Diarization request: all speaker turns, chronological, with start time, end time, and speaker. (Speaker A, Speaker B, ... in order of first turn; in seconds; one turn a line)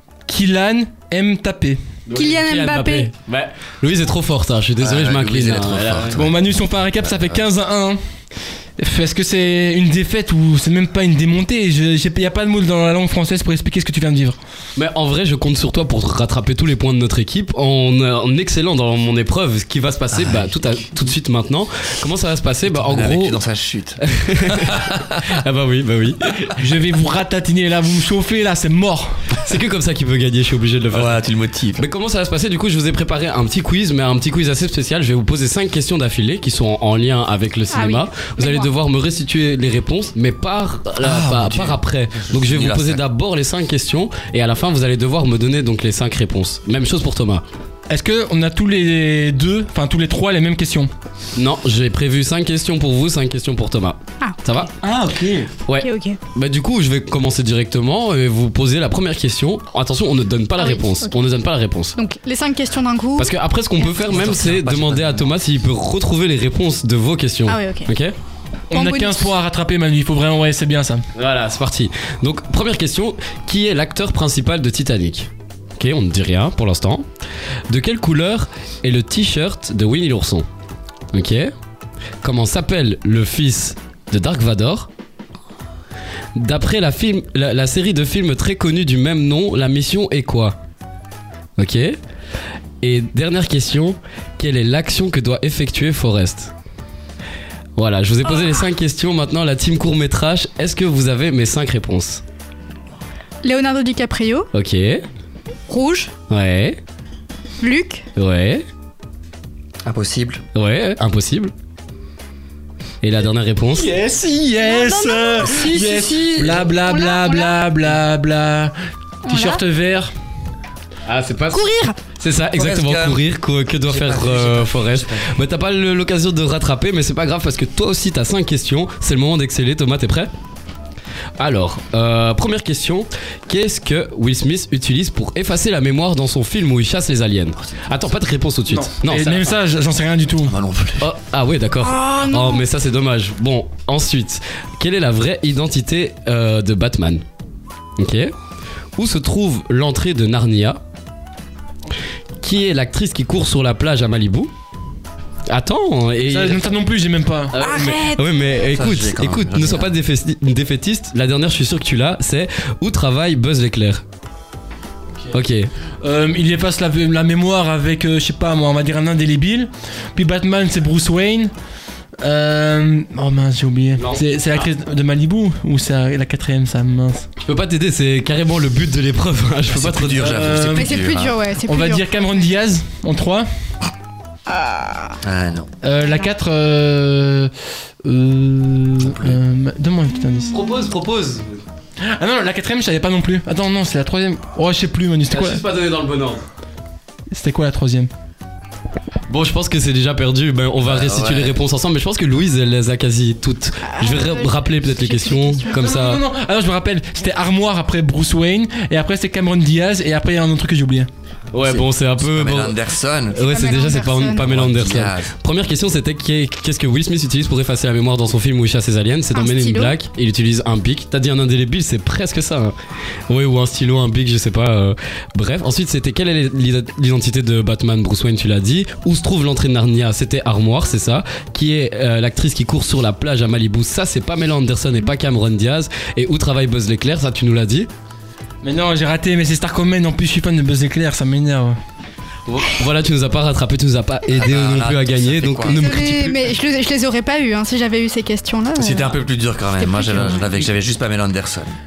Speaker A: 0.3-1.8
Speaker B: 2.1-6.2
Speaker C: 2.1-3.1
Speaker D: 4.8-6.3
Speaker A: 6.1-8.0
Speaker D: 7.0-7.4
Speaker A: 8.8-14.4
Speaker B: 14.8-23.4
Speaker D: 20.1-20.6
Speaker D: 22.7-24.9
Speaker B: 24.0-26.6
Speaker A: 26.6-29.3
Speaker B: 29.3-31.2
Speaker D: 30.9-31.9
Speaker B: 31.8-47.4
Speaker C: 37.7-38.7
Speaker D: 41.0-43.0
Speaker A: 47.9-50.9
Speaker B: 51.4-54.7
Speaker D: 54.9-55.4
Speaker A: 54.9-55.5
Speaker B: 55.7-62.0
Speaker C: 55.8-56.2
Speaker C: 60.6-61.2
Speaker C: 62.0-64.0
Speaker B: 63.2-68.2
Speaker D: 64.1-65.4
Speaker C: 67.5-67.9
Speaker C: 68.7-69.3
Speaker A: 68.7-71.0
Speaker B: 71.2-77.1
Speaker B: 77.7-80.5
Speaker B: 81.1-81.5
Speaker B: 82.2-84.9
Speaker B: 86.4-90.6
Speaker B: 91.6-92.0
Speaker B: 92.8-96.5
Speaker B: 97.8-102.2
Speaker C: 103.4-104.5
Speaker B: 104.5-105.0
Speaker C: 105.7-106.1
Speaker B: 106.3-106.8
Speaker C: 107.6-108.0
Speaker B: 108.2-108.7
Speaker D: 109.8-110.4
Speaker B: 110.5-111.5
Speaker B: 113.0-113.9
Speaker A: 113.7-118.7
Speaker C: 114.6-117.6
Speaker C: 119.2-119.6
Speaker A: 119.3-120.1
Speaker B: 121.1-130.3
Speaker C: 121.5-122.0
Speaker D: 122.5-123.3
Speaker D: 123.8-125.4
Speaker B: 131.4-139.6
Speaker A: 138.7-140.6
Speaker D: 140.4-141.1
Speaker B: 141.0-147.2
Speaker C: 141.8-142.7
Speaker B: 148.0-148.3
Speaker B: 149.0-150.8
Speaker B: 152.4-154.5
Speaker B: 155.5-156.7
Speaker A: 156.2-157.7
Speaker B: 157.5-164.0
Speaker C: 157.6-158.2
Speaker D: 158.7-159.9
Speaker B: 165.3-165.7
Speaker A: 166.0-171.5
Speaker A: 172.2-177.3
Speaker B: 174.0-174.6
Speaker B: 177.5-180.6
Speaker D: 179.7-181.4
Speaker A: 180.2-181.0
Speaker C: 180.7-182.5
Speaker A: 181.7-183.5
Speaker C: 184.5-185.2
Speaker D: 185.2-185.7
Speaker A: 185.8-187.5
Speaker A: 188.0-190.7
Speaker D: 189.0-189.4
Speaker B: 190.5-191.6
Speaker A: 192.1-195.6
Speaker B: 195.3-196.4
Speaker A: 197.3-198.1
Speaker B: 199.3-206.2
Speaker D: 200.8-201.6
Speaker C: 203.8-205.8
Speaker A: 205.8-211.1
Speaker B: 211.5-222.7
Speaker D: 211.6-213.4
Speaker C: 213.4-214.5
Speaker D: 214.4-215.3
Speaker C: 219.3-220.0
Speaker B: 223.3-237.9
Speaker A: 238.6-241.8
Speaker B: 242.5-246.6
Speaker D: 244.3-245.8
Speaker C: 245.7-249.1
Speaker D: 248.8-251.8
Speaker C: 249.8-250.5